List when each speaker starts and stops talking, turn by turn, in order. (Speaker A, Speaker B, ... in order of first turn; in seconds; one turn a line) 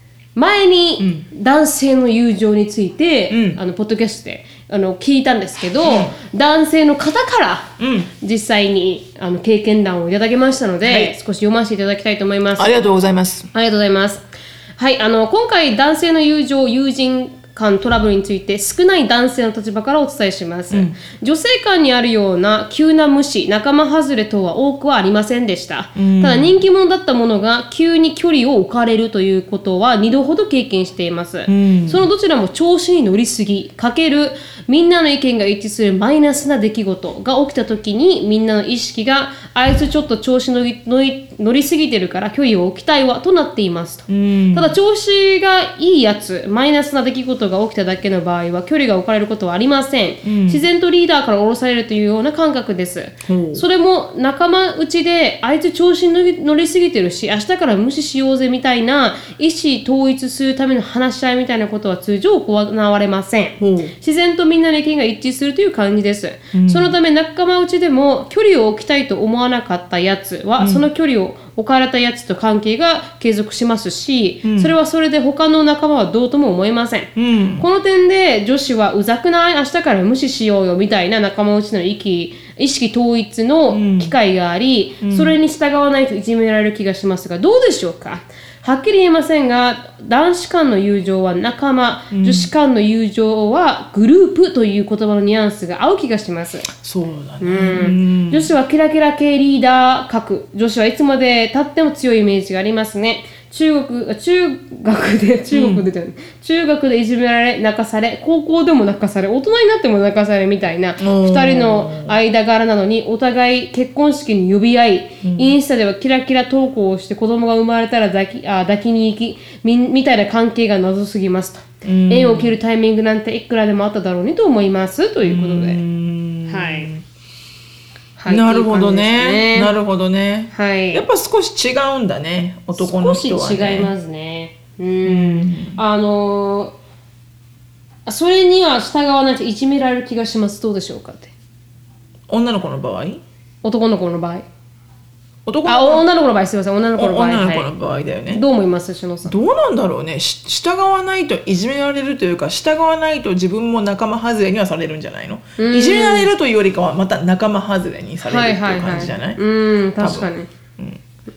Speaker A: 0.4-12.7
Speaker B: 1.0-1.2
Speaker B: 3.3-3.6
Speaker B: 5.8-6.1
Speaker B: 7.8-8.1
Speaker B: 10.8-11.2
Speaker B: 12.6-13.5
Speaker A: 13.5-14.2
Speaker A: 14.8-96.7
Speaker B: 26.0-26.6
Speaker B: 31.5-32.0
Speaker B: 44.1-44.8
Speaker B: 50.2-50.6
Speaker B: 53.3-53.6
Speaker B: 63.6-63.9
Speaker B: 66.5-66.9
Speaker B: 70.6-70.8
Speaker B: 74.4-74.7
Speaker B: 77.2-77.7
Speaker B: 83.7-84.1
Speaker B: 85.0-85.4
Speaker B: 92.1-92.5
Speaker B: 96.7-98.5
Speaker A: 97.4-125.8
Speaker B: 105.5-105.8
Speaker B: 111.0-112.2
Speaker B: 115.2-115.6
Speaker B: 121.8-122.5
Speaker B: 125.2-127.0
Speaker A: 126.5-126.9
Speaker A: 128.2-129.7
Speaker B: 128.3-133.9
Speaker A: 130.5-131.0
Speaker A: 132.8-136.7
Speaker B: 135.0-135.8
Speaker A: 138.1-141.3
Speaker B: 142.3-143.2
Speaker A: 143.6-144.4
Speaker B: 145.4-146.0
Speaker A: 145.7-147.7
Speaker B: 147.0-148.4
Speaker A: 148.3-149.3
Speaker B: 149.3-159.4
Speaker A: 155.6-156.3
Speaker A: 158.2-160.5
Speaker B: 160.0-161.0